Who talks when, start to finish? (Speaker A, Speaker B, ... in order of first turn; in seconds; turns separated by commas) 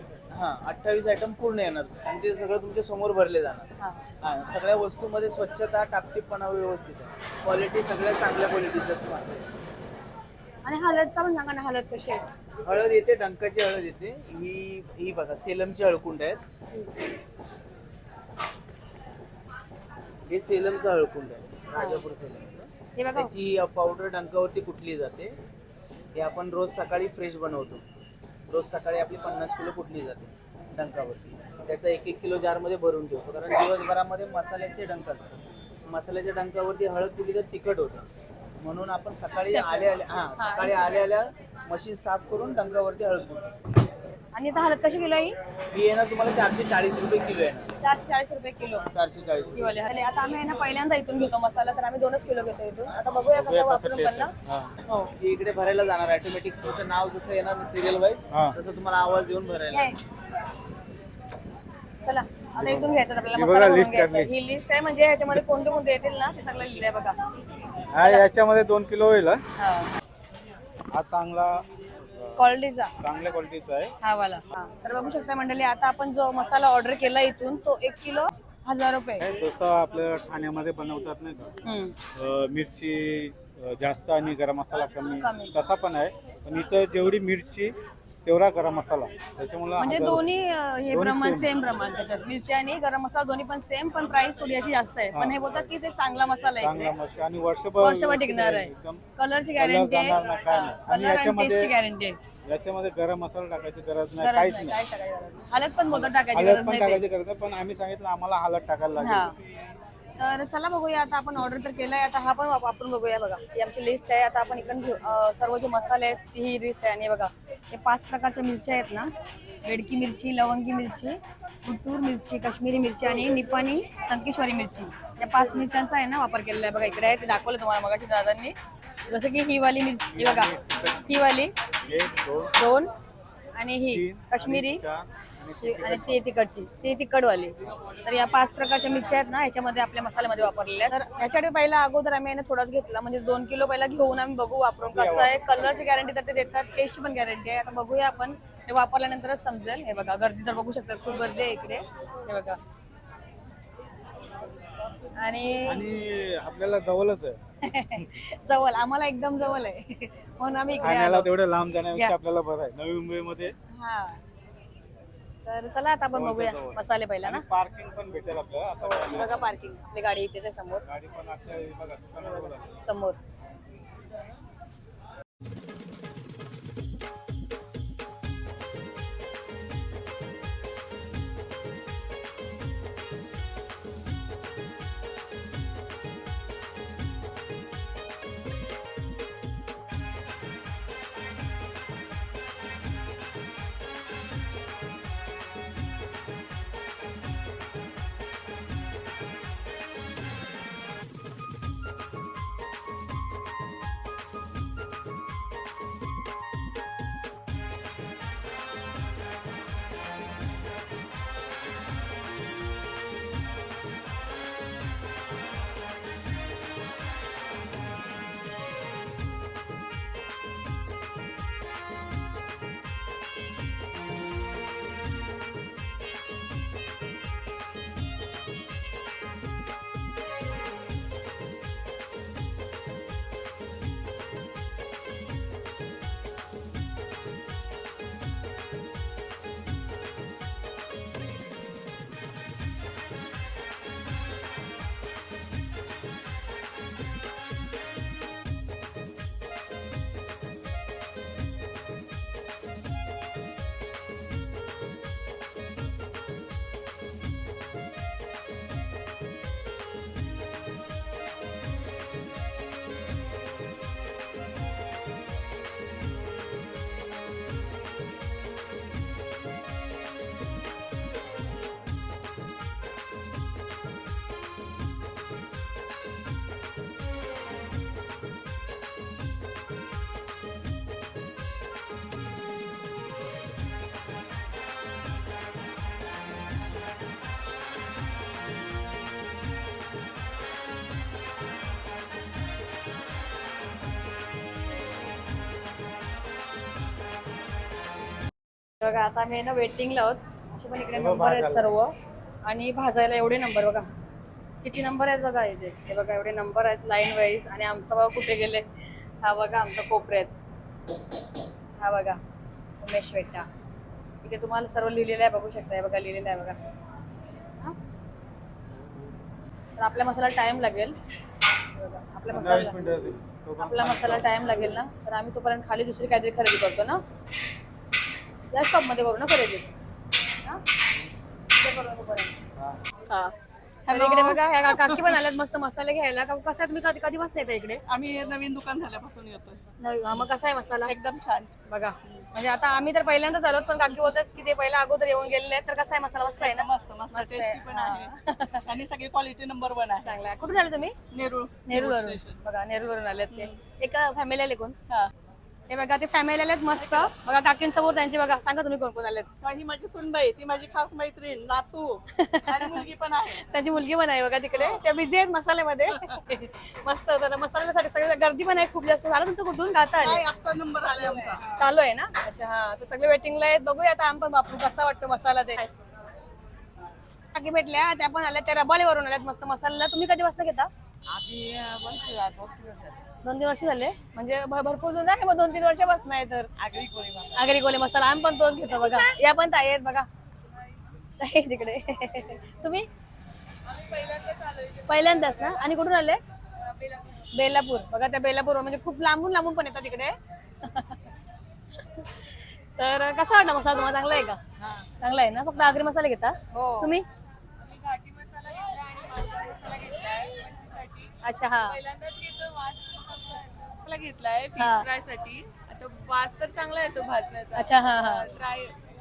Speaker A: 0.3-3.7, Speaker A: 4.2-9.4, Speaker B: 10.6-12.2, Speaker A: 12.6-16.4, Speaker A: 20.3-25.4, Speaker B: 21.8-22.0, Speaker B: 23.0-23.3, Speaker A: 26.1-27.8, Speaker A: 28.5-38.0, Speaker A: 38.6-43.5, Speaker B: 39.5-41.3, Speaker B: 44.3-45.3, Speaker A: 45.7-47.7, Speaker B: 47.8-48.9, Speaker A: 48.8-49.8, Speaker B: 49.5-54.3, Speaker C: 53.3-54.7, Speaker A: 55.2-59.9, Speaker B: 59.7-60.0, Speaker B: 62.0-67.2, Speaker C: 62.5-64.3, Speaker C: 67.9-69.4, Speaker B: 69.6-69.9, Speaker C: 70.9-71.6, Speaker C: 72.1-72.5, Speaker B: 72.4-72.9, Speaker C: 73.0-73.9, Speaker B: 74.0-79.2, Speaker C: 79.2-81.5, Speaker B: 81.6-81.9, Speaker C: 82.2-87.7, Speaker B: 85.0-85.5, Speaker C: 88.2-90.3, Speaker B: 89.8-96.9, Speaker C: 90.9-91.5, Speaker C: 95.1-95.7, Speaker C: 96.6-99.0, Speaker B: 97.8-102.2, Speaker C: 99.5-101.7, Speaker C: 102.5-104.8, Speaker B: 104.2-107.0, Speaker C: 105.9-109.3, Speaker B: 109.0-109.3, Speaker B: 110.2-119.1, Speaker B: 119.6-128.6, Speaker B: 129.1-130.5, Speaker C: 130.1-131.1, Speaker B: 131.1-131.5, Speaker C: 131.8-132.5, Speaker B: 132.5-132.9, Speaker B: 133.6-134.8, Speaker C: 133.9-136.2, Speaker B: 135.6-152.6, Speaker C: 144.8-145.5, Speaker B: 155.2-155.8, Speaker C: 155.6-157.4, Speaker B: 157.6-161.3, Speaker C: 160.8-163.5, Speaker B: 163.8-164.2, Speaker B: 165.4-167.4, Speaker C: 166.1-169.5, Speaker B: 168.8-170.8, Speaker C: 170.8-172.7, Speaker B: 172.2-173.2, Speaker B: 298.8-301.9, Speaker C: 300.9-301.7, Speaker B: 302.5-303.9, Speaker B: 304.6-308.6, Speaker B: 309.2-310.3, Speaker B: 311.8-312.2, Speaker B: 312.8-313.5, Speaker B: 314.2-316.6, Speaker B: 319.8-320.9, Speaker B: 321.8-322.9, Speaker C: 322.3-324.4, Speaker B: 323.6-327.0, Speaker B: 328.5-329.7, Speaker B: 331.5-332.3, Speaker D: 333.1-333.3, Speaker D: 333.9-335.2, Speaker B: 333.9-337.8, Speaker D: 337.9-339.6, Speaker B: 339.8-340.9, Speaker D: 340.9-341.5, Speaker B: 341.7-348.6, Speaker D: 346.4-348.1, Speaker D: 348.6-350.1, Speaker B: 350.0-350.9, Speaker D: 351.1-352.4, Speaker B: 351.7-354.8, Speaker D: 353.3-353.6, Speaker B: 355.7-359.3, Speaker D: 356.8-357.1, Speaker D: 359.4-363.5, Speaker B: 362.2-362.9, Speaker B: 363.4-370.2, Speaker D: 364.6-364.8, Speaker D: 370.0-371.5, Speaker B: 371.5-375.6, Speaker B: 377.3-380.7, Speaker D: 381.1-383.0, Speaker B: 383.2-386.5, Speaker D: 386.6-387.3, Speaker B: 387.3-390.1, Speaker B: 391.2-392.9, Speaker E: 393.7-395.6, Speaker B: 394.9-396.2, Speaker E: 396.8-397.2, Speaker B: 397.3-401.0, Speaker B: 401.8-402.2, Speaker B: 402.8-404.4, Speaker D: 404.6-404.9, Speaker B: 405.0-407.0, Speaker D: 406.5-406.9, Speaker E: 407.6-418.7, Speaker B: 411.2-411.8, Speaker B: 414.6-414.8, Speaker B: 417.5-418.3